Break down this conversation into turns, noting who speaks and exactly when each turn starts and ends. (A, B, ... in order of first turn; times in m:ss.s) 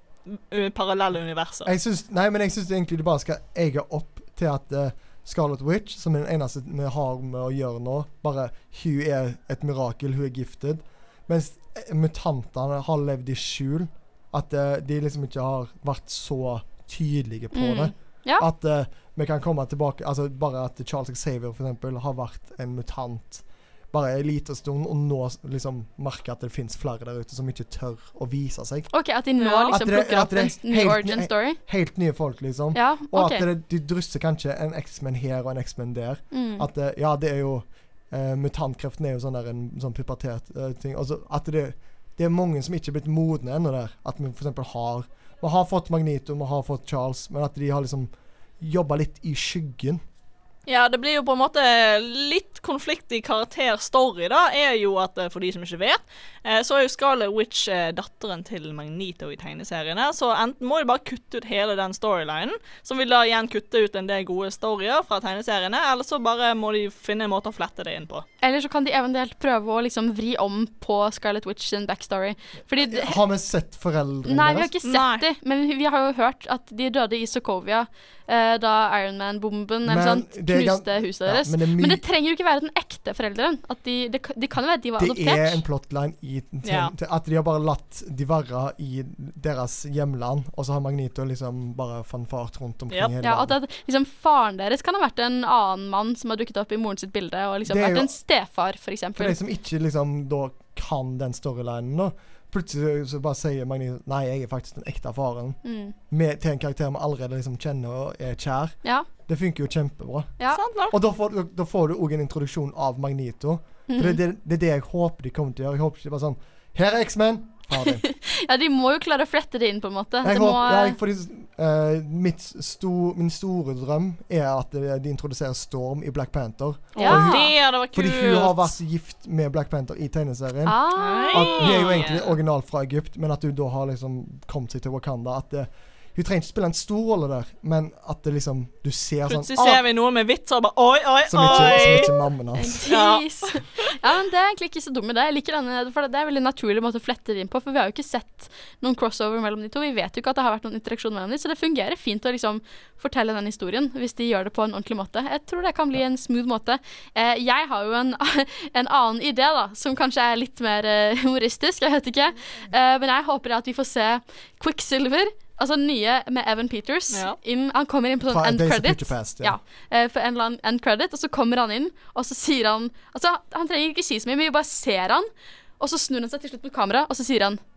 0:00.3-0:01.7 A
0:01.6-0:28.9 B
0:17.5-0:18.5 C
0:28.9-0:31.6 C
0:29.4-0:29.8 A
0:29.7-0:50.0 B
0:32.8-0:33.5 C
0:36.3-0:36.7 C
0:50.7-1:08.2 A
1:08.4-1:13.2 C
1:12.8-1:14.7 B
1:14.3-1:25.6 C
1:14.8-1:15.2 A
1:19.8-1:22.0 B
1:25.0-1:33.6 B
1:26.6-1:26.9 A
1:33.2-1:39.4 C
1:37.7-1:38.1 B
1:39.2-1:45.6 B
1:45.6-1:46.0 C
1:46.1-1:50.4 B
1:50.5-1:51.0 A
1:50.9-1:58.0 B
1:53.9-1:54.2 C
1:57.8-2:01.0 C
2:00.2-2:10.8 B
2:07.0-2:07.5 C
2:07.0-2:08.7 A
2:10.7-2:12.0 C
2:11.0-2:12.4 A
2:11.3-2:19.8 B
2:19.3-2:22.1 A
2:21.3-2:22.8 B
2:21.5-2:22.0 C
2:22.6-2:57.6 C
2:22.9-2:23.9 A
2:47.1-2:47.4 A
2:48.3-2:49.6 B